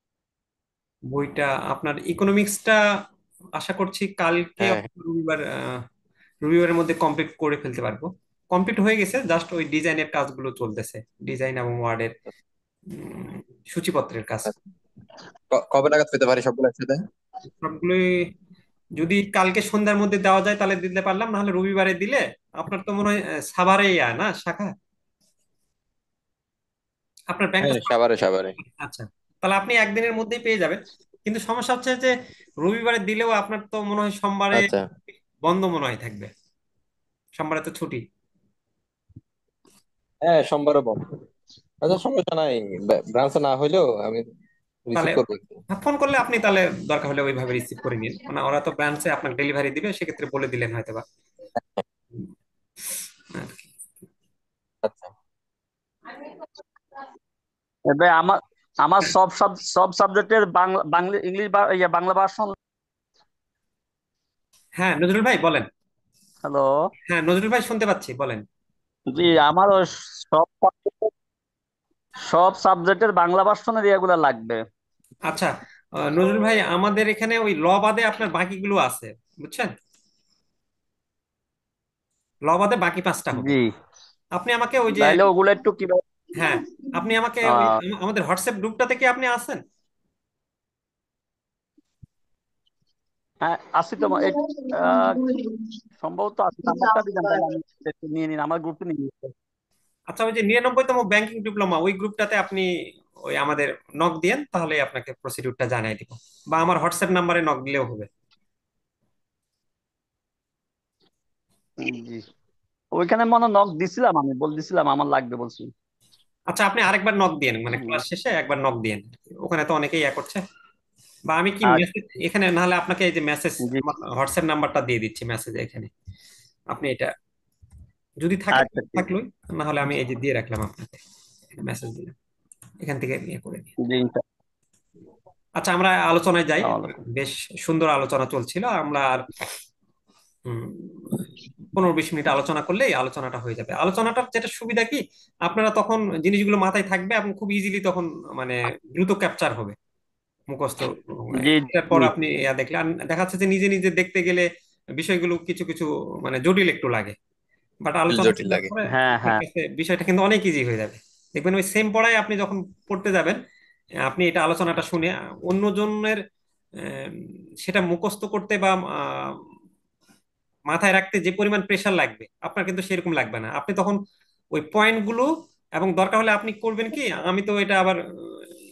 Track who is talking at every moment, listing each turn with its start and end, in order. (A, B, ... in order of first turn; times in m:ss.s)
0:01.1-0:02.8 A
0:03.6-0:05.8 A
0:04.6-0:04.9 B
0:06.4-0:12.2 A
0:12.9-0:14.6 A
0:15.5-0:17.0 B
0:17.6-0:18.3 A
0:19.0-0:24.7 A
0:27.3-0:27.9 A
0:27.6-0:28.6 B
0:28.8-0:34.7 A
0:34.5-0:34.9 B
0:35.4-0:36.3 A
0:37.4-0:38.0 A
0:40.2-0:41.1 B
0:41.8-0:44.2 B
0:44.9-0:45.6 B
0:45.0-0:51.0 A
0:53.3-0:53.7 A
0:54.8-0:55.1 B
0:57.9-1:02.6 C
1:04.8-1:05.7 A
1:06.4-1:06.7 C
1:07.1-1:08.4 A
1:09.1-1:11.1 C
1:12.3-1:14.6 C
1:15.3-1:19.7 A
1:22.5-1:23.5 A
1:23.4-1:23.7 C
1:24.4-1:25.2 A
1:25.0-1:26.0 C
1:26.4-1:29.6 A
1:27.5-1:27.7 C
1:33.4-1:35.3 C
1:36.0-1:39.3 C
1:40.1-1:42.7 A
1:43.3-1:48.1 A
1:51.8-1:52.2 C
1:53.0-1:55.7 C
1:56.5-2:00.4 A
2:01.3-2:05.9 A
2:06.7-2:07.1 A
2:08.2-2:11.0 A
2:08.6-2:09.0 C
2:11.6-2:12.2 A
2:12.8-2:13.7 A
2:13.8-2:14.2 C
2:15.6-2:19.3 A
2:16.6-2:17.0 C
2:20.5-2:21.2 A
2:21.7-2:29.8 A
2:30.5-2:34.5 A
2:31.4-2:32.1 C
2:35.0-2:37.2 A
2:37.8-2:43.4 A
2:38.1-2:38.7 B
2:38.9-2:39.4 C
2:44.1-2:46.2 A
2:46.8-2:49.4 A
2:50.7-2:54.0 A
2:54.5-2:58.4 A